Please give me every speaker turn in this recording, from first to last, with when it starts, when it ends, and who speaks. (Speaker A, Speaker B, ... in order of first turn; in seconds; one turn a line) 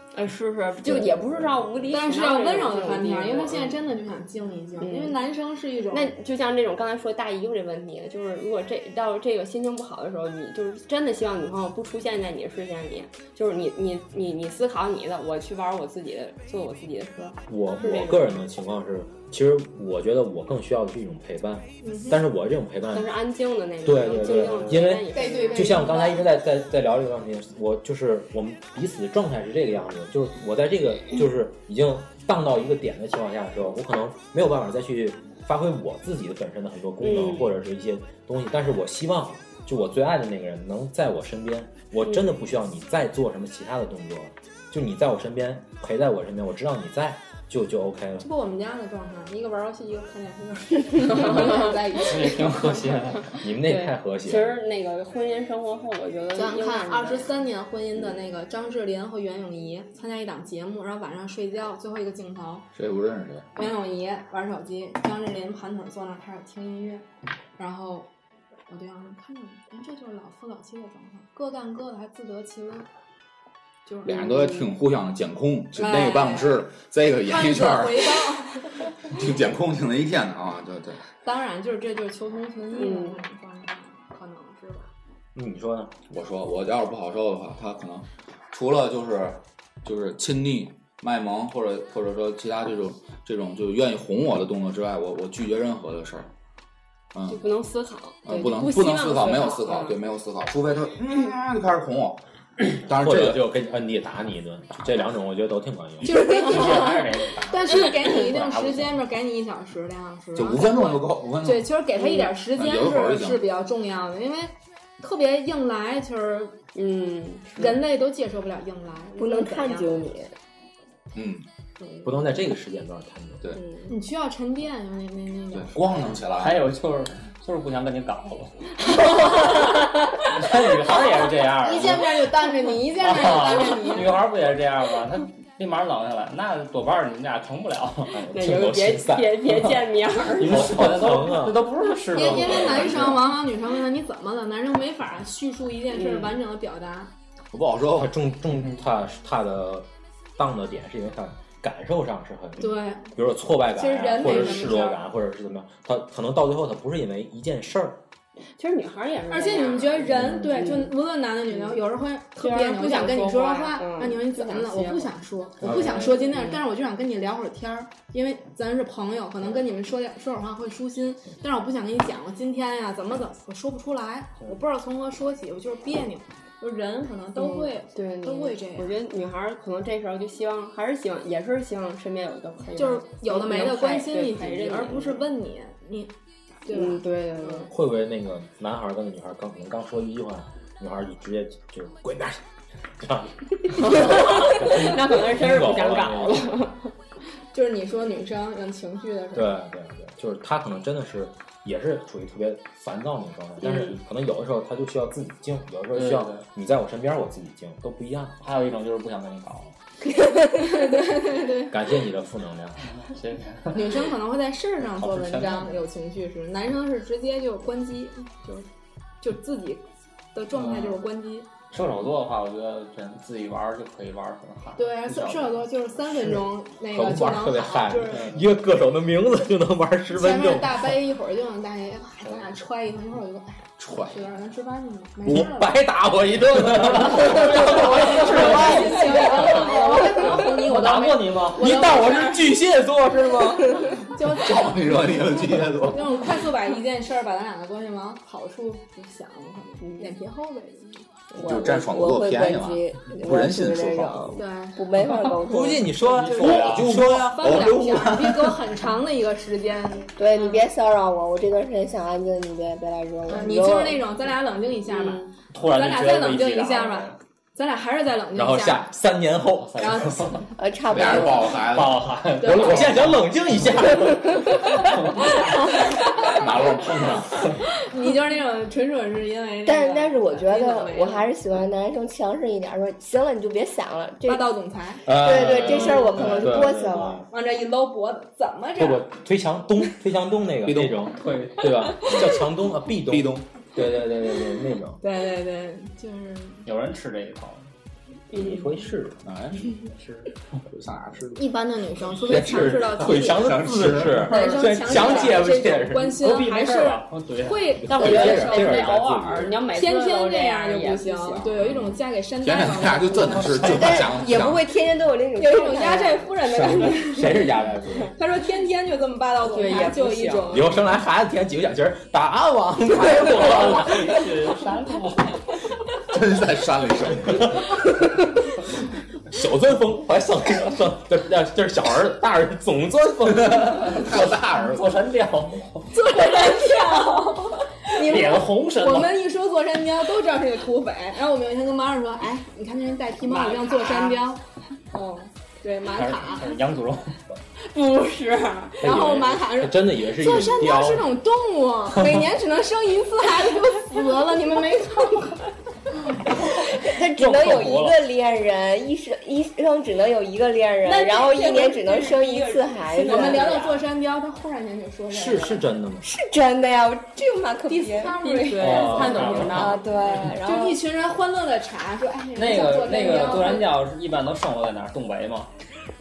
Speaker A: 0.1-3.8
Speaker B: 0.8-1.8
Speaker C: 1.9-6.1
Speaker A: 4.8-5.2
Speaker A: 5.9-18.4
Speaker B: 17.5-23.1
Speaker C: 21.8-22.2
Speaker A: 22.9-26.0
Speaker B: 23.8-48.3
Speaker C: 25.1-26.2
Speaker A: 37.0-37.5
Speaker C: 48.2-52.9
Speaker A: 51.2-51.7
Speaker D: 51.3-53.3
Speaker B: 53.4-54.6
Speaker A: 53.5-57.3
Speaker C: 56.4-62.7
Speaker E: 62.8-63.5
Speaker C: 63.5-67.1
Speaker C: 67.6-68.1
Speaker C: 68.7-72.9
Speaker C: 73.9-74.6
Speaker E: 74.0-78.4
Speaker C: 75.8-76.7
Speaker C: 77.2-78.8
Speaker E: 79.0-81.0
Speaker C: 81.2-84.9
Speaker A: 82.8-83.2
Speaker B: 85.3-86.0
Speaker E: 86.1-96.3
Speaker E: 97.1-97.4
Speaker A: 97.2-100.0
Speaker E: 98.2-103.4
Speaker B: 103.0-106.2
Speaker C: 106.0-116.6
Speaker D: 106.3-109.0
Speaker A: 106.5-106.8
Speaker E: 110.3-111.7
Speaker A: 112.0-112.3
Speaker E: 112.5-113.4
Speaker A: 116.8-117.8
Speaker C: 117.6-120.0
Speaker F: 119.2-120.3
Speaker E: 121.1-121.5
Speaker B: 122.0-123.6
Speaker A: 123.5-123.9
Speaker C: 123.9-126.0
Speaker E: 125.5-126.7
Speaker D: 126.4-128.7
Speaker A: 129.0-129.6
Speaker D: 130.3-132.2
Speaker C: 131.6-134.3
Speaker D: 133.0-138.2
Speaker B: 138.1-139.9
Speaker A: 138.3-140.8
Speaker D: 140.4-143.4
Speaker B: 140.4-141.7
Speaker C: 142.1-147.1
Speaker B: 142.6-143.1
Speaker A: 145.9-146.3
Speaker E: 147.5-148.1
Speaker B: 147.9-158.0
Speaker C: 152.6-153.1
Speaker C: 153.7-155.0
Speaker A: 158.6-161.0
Speaker C: 159.3-178.9
Speaker A: 161.5-161.8
Speaker A: 162.4-165.1
Speaker B: 165.6-166.2
Speaker A: 165.7-166.6
Speaker A: 177.4-185.3
Speaker C: 182.8-187.7
Speaker A: 186.7-187.7
Speaker B: 187.7-192.4
Speaker B: 193.0-196.6
Speaker A: 193.8-196.9
Speaker C: 197.5-199.6
Speaker B: 199.3-208.4
Speaker A: 203.6-204.0
Speaker D: 205.9-206.5
Speaker D: 208.4-209.7
Speaker C: 210.4-211.8
Speaker B: 211.7-212.9
Speaker D: 212.9-214.0
Speaker C: 213.7-218.7
Speaker D: 214.8-215.8
Speaker C: 219.2-221.5
Speaker D: 220.5-221.0
Speaker D: 221.7-225.7
Speaker C: 224.8-228.4
Speaker B: 226.9-231.0
Speaker C: 230.1-235.9
Speaker E: 233.8-234.2
Speaker B: 235.2-239.3
Speaker D: 236.8-241.8
Speaker C: 236.8-242.6
Speaker A: 238.4-240.5
Speaker B: 241.5-243.9
Speaker C: 243.8-245.2
Speaker E: 244.3-246.1
Speaker C: 245.8-251.2
Speaker F: 251.3-255.9
Speaker E: 251.4-254.4
Speaker C: 254.4-254.8
Speaker B: 255.5-257.8
Speaker D: 256.0-256.9
Speaker C: 256.2-260.1
Speaker E: 256.7-258.7
Speaker F: 260.2-264.1
Speaker C: 263.3-268.9
Speaker A: 264.9-265.3
Speaker D: 265.5-267.2
Speaker B: 268.3-270.4
Speaker D: 269.7-270.2
Speaker C: 269.8-270.5
Speaker F: 270.6-271.7
Speaker E: 270.9-272.2
Speaker D: 271.6-273.2
Speaker C: 272.4-272.9
Speaker B: 272.4-274.5
Speaker C: 275.9-276.4
Speaker E: 276.3-277.5
Speaker C: 277.7-281.3
Speaker F: 279.6-284.5
Speaker C: 284.2-286.6
Speaker B: 285.1-287.3
Speaker F: 285.1-287.2
Speaker C: 287.3-289.1
Speaker B: 288.8-295.0
Speaker E: 290.6-291.1
Speaker D: 291.2-291.9
Speaker E: 292.1-292.4
Speaker E: 293.1-293.4
Speaker C: 295.0-296.7
Speaker D: 296.7-297.7
Speaker B: 298.3-299.2
Speaker E: 299.2-299.9
Speaker D: 299.9-300.3
Speaker E: 300.7-301.5
Speaker C: 301.4-308.9
Speaker E: 302.1-304.3
Speaker B: 302.2-306.2
Speaker D: 306.2-308.7
Speaker B: 307.8-309.5
Speaker A: 307.9-311.5
Speaker C: 309.7-314.0
Speaker E: 312.4-314.8
Speaker F: 313.6-316.4
Speaker C: 315.4-317.4
Speaker A: 315.5-317.4
Speaker E: 316.5-316.9
Speaker B: 317.1-318.1
Speaker C: 318.1-320.9
Speaker A: 319.5-320.6
Speaker B: 320.5-324.1
Speaker D: 323.1-325.4
Speaker E: 326.1-327.6
Speaker B: 329.3-334.1
Speaker E: 333.3-335.0
Speaker D: 334.5-335.9
Speaker C: 335.9-346.6
Speaker D: 337.9-339.2
Speaker A: 343.3-344.2
Speaker D: 345.9-347.2
Speaker A: 347.7-348.9
Speaker C: 348.8-355.5
Speaker B: 348.8-351.2
Speaker D: 356.8-358.0
Speaker F: 356.9-363.5
Speaker A: 360.8-363.9
Speaker C: 363.0-365.8
Speaker B: 365.1-366.1
Speaker F: 366.0-368.2
Speaker C: 367.7-373.8
Speaker A: 368.2-370.3
Speaker D: 368.6-369.8
Speaker B: 368.6-369.3
Speaker F: 369.5-370.8
Speaker D: 372.4-375.5